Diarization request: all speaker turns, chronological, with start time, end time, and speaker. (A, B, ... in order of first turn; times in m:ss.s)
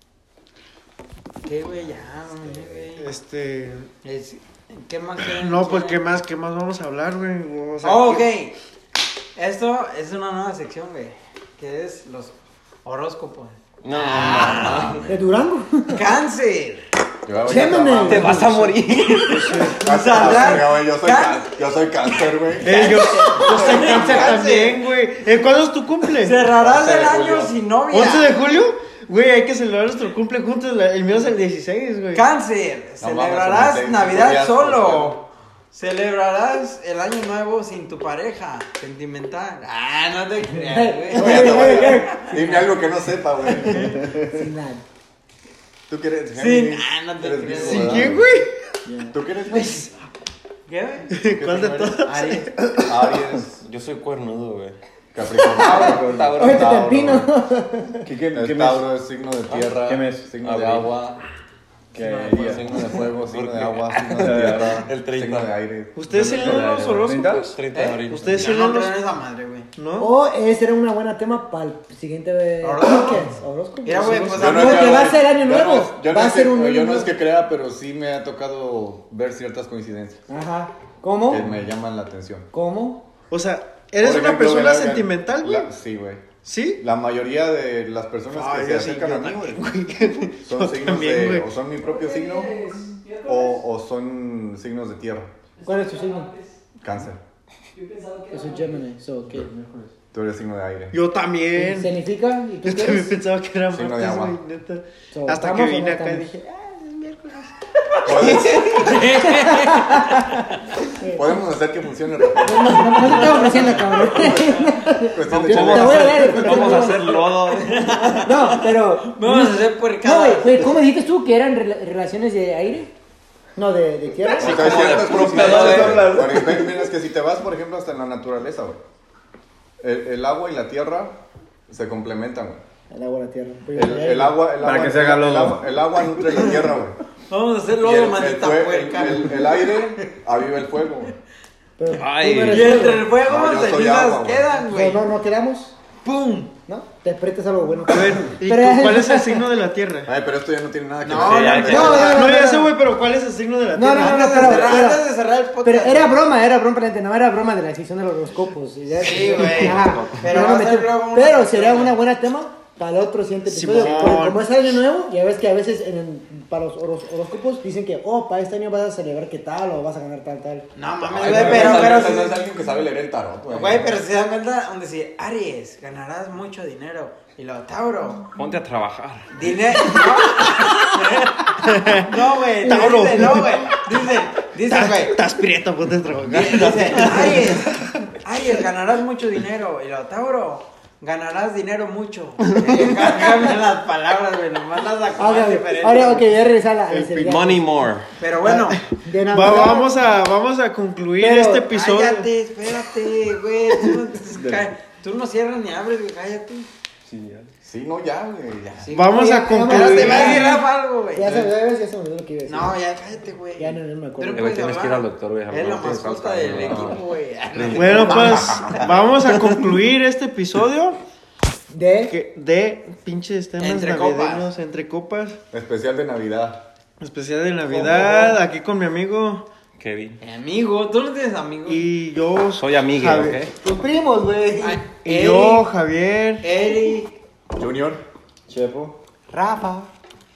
0:01.4-0:03.1 A
0:03.0-0:03.9 B
0:04.0-0:06.0 A
0:05.2-0:08.3 B
0:07.8-0:08.5 A
0:09.4-0:15.0 A
0:13.8-0:15.1 C
0:14.2-0:15.2 D
0:15.0-0:16.1 E
0:15.9-0:16.8 A
0:17.2-0:18.5 D
0:17.4-0:18.7 E
0:18.0-0:19.7 C
0:19.1-0:19.9 B
0:19.8-0:21.5 A
0:19.8-0:24.3 D
0:22.6-0:26.4 B
0:22.6-0:24.8 A
0:26.2-0:28.3 A
0:26.5-0:27.5 D
0:27.9-0:32.2 B
0:32.1-0:42.7 A
0:33.0-0:35.1 D
0:40.6-0:42.4 E
0:41.1-0:44.2 D
0:43.6-0:44.0 A
0:44.2-0:44.8 E
0:45.9-0:48.3 D
0:46.3-0:48.1 A
0:47.5-0:48.8 B
0:48.8-0:49.9 E
0:49.1-0:49.9 D
0:50.7-0:51.1 A
0:51.1-0:53.1 B
0:51.2-0:52.1 D
0:52.0-0:52.5 A
0:52.8-0:53.6 D
0:53.6-0:54.8 C
0:55.1-0:57.3 D
0:55.6-0:58.1 E
0:55.6-0:57.1 C
0:55.7-0:56.4 F
0:58.0-0:58.8 F
0:58.3-1:01.2 D
0:59.5-0:59.8 C
0:59.8-1:00.3 F
1:00.4-1:01.0 C
1:01.9-1:02.8 F
1:02.0-1:02.5 A
1:02.0-1:06.6 D
1:02.3-1:05.6 C
1:04.1-1:04.8 F
1:05.9-1:09.0 B
1:06.1-1:08.5 C
1:06.2-1:07.5 F
1:07.7-1:09.7 A
1:09.8-1:10.2 B
1:10.0-1:17.1 E
1:12.6-1:13.3 A
1:13.8-1:15.1 A
1:14.3-1:20.2 D
1:20.3-1:21.5 E
1:21.2-1:22.5 D
1:22.5-1:23.1 E
1:23.3-1:25.7 B
1:24.0-1:29.6 D
1:26.4-1:26.8 B
1:28.3-1:31.5 B
1:30.4-1:35.3 D
1:35.6-1:36.3 E
1:36.8-1:37.2 D
1:38.3-1:39.5 E
1:39.4-1:39.9 F
1:40.1-1:41.0 D
1:40.9-1:42.0 B
1:41.5-1:43.2 E
1:42.6-1:46.3 B
1:43.7-1:44.4 D
1:45.1-1:48.1 E
1:48.0-1:48.8 D
1:48.2-1:48.5 B
1:48.6-1:50.5 A
1:49.1-1:50.4 E
1:51.0-1:51.4 E
1:51.0-1:56.8 D
1:52.4-2:02.9 E
1:55.2-1:58.2 C
1:57.5-2:00.6 A
2:03.6-2:04.8 E
2:04.3-2:06.4 C
2:04.3-2:08.8 D
2:04.7-2:06.8 F
2:09.8-2:12.6 D
2:12.9-2:14.5 E
2:13.7-2:17.0 D
2:14.6-2:15.6 F
2:17.3-2:20.1 A
2:17.8-2:21.2 D
2:21.8-2:23.1 E
2:21.9-2:23.0 C
2:22.5-2:25.0 A
2:23.2-2:24.5 D
2:24.6-2:25.8 E
2:26.0-2:26.5 A
2:26.7-2:29.5 E
2:27.9-2:30.1 B
2:30.0-2:32.2 D
2:31.0-2:32.5 A
2:31.1-2:32.2 C
2:31.6-2:32.7 E
2:31.9-2:34.8 B
2:33.7-2:35.1 E
2:33.9-2:36.3 A
2:35.6-2:50.7 E
2:38.9-2:42.0 A
2:39.3-2:40.3 C
2:43.4-2:44.5 B
2:50.7-2:52.4 A
2:51.0-2:53.9 D
2:51.2-2:51.9 C
2:53.5-2:58.2 A
2:58.4-2:59.3 C
2:59.3-3:05.2 A
2:59.9-3:00.8 B
3:01.5-3:02.1 B
3:02.6-3:03.5 E
3:02.6-3:03.6 B
3:04.6-3:08.2 B
3:06.3-3:16.3 A
3:12.5-3:13.3 B
3:15.2-3:17.6 E
3:16.9-3:17.3 B
3:17.2-3:18.1 C
3:18.2-3:18.8 A
3:18.4-3:20.0 E
3:18.7-3:22.3 B
3:21.2-3:21.7 E
3:21.7-3:26.7 A
3:24.3-3:24.7 F
3:27.0-3:27.5 F
3:27.6-3:28.9 D
3:28.8-3:31.5 A
3:28.9-3:30.7 B
3:29.1-3:32.8 E
3:32.4-3:38.8 A
3:33.6-3:34.6 E
3:34.3-3:37.0 C
3:37.5-3:39.6 C
3:37.7-3:41.0 B
3:38.0-3:38.4 E
3:41.7-3:42.2 E
3:42.1-3:45.4 B
3:43.6-3:44.5 A
3:45.5-3:46.7 D
3:47.0-3:49.4 B
3:47.7-3:48.4 E
3:49.8-3:50.2 C
3:50.2-3:51.8 A
3:51.6-3:53.5 B
3:52.6-3:53.5 C
3:53.5-3:54.8 E
3:54.6-3:55.7 A
3:55.0-3:56.5 B
3:56.4-3:57.1 A
3:57.5-3:58.0 D
3:58.5-3:59.0 F
3:59.3-3:59.9 E